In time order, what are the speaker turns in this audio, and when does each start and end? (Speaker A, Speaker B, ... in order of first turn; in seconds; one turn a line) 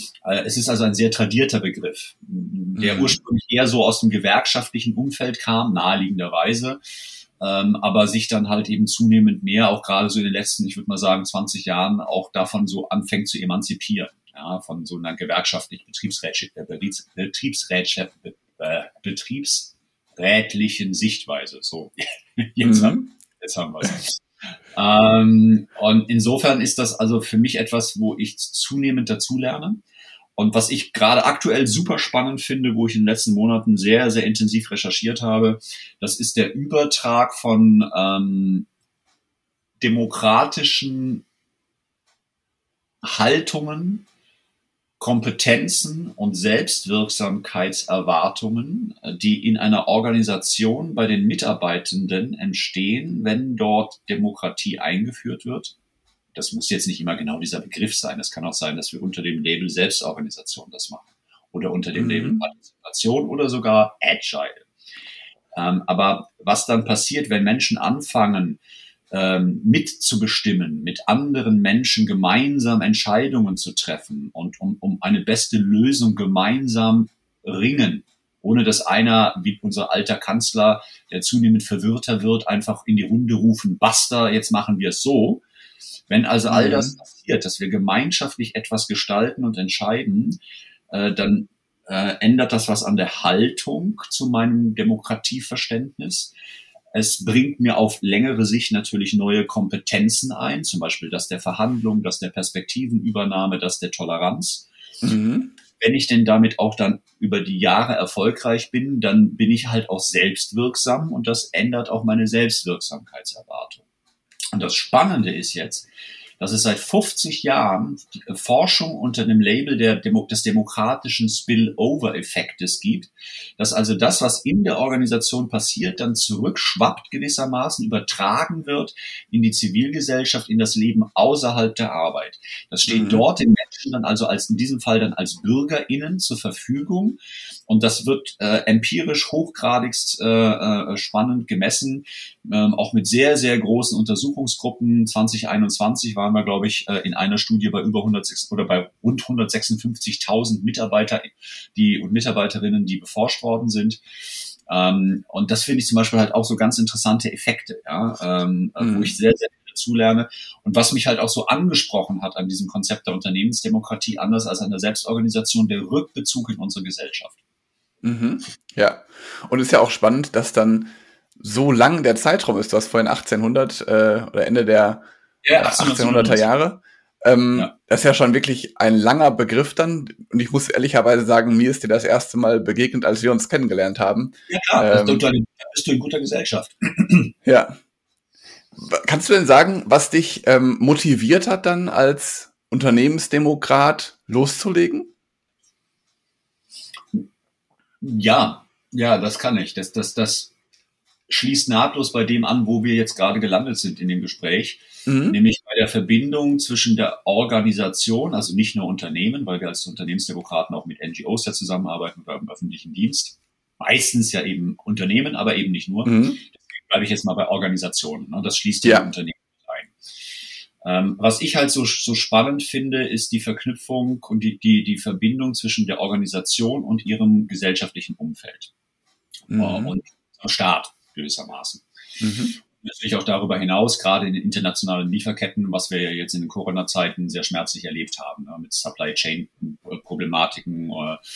Speaker A: 0.2-6.8
Speaker B: 2.8-3.2
Speaker A: 7.4-24.2
Speaker B: 22.6-23.1
Speaker A: 24.8-29.8
Speaker A: 30.4-38.7
Speaker A: 39.8-41.2
Speaker A: 43.0-44.0
Speaker A: 45.0-55.7
Speaker A: 56.3-64.7
Speaker B: 62.0-62.5
Speaker A: 65.5-68.6
Speaker A: 69.1-85.4
Speaker A: 86.1-90.4
Speaker B: 86.5-87.0
Speaker A: 90.9-96.3
Speaker A: 96.9-104.7
Speaker B: 105.0-105.5
Speaker A: 105.8-113.8
Speaker A: 114.5-115.9
Speaker A: 116.4-154.0
Speaker B: 132.9-133.2
Speaker A: 154.7-167.4
Speaker B: 158.8-159.1
Speaker B: 168.0-185.2
Speaker A: 175.4-176.5
Speaker A: 184.5-187.3
Speaker B: 187.4-187.8
Speaker B: 188.8-195.1
Speaker A: 198.0-200.5
Speaker A: 201.3-219.9
Speaker B: 205.1-205.4
Speaker B: 216.1-216.4
Speaker A: 220.8-228.7
Speaker B: 229.5-230.0
Speaker A: 229.5-231.8
Speaker B: 232.2-232.6
Speaker A: 232.7-241.2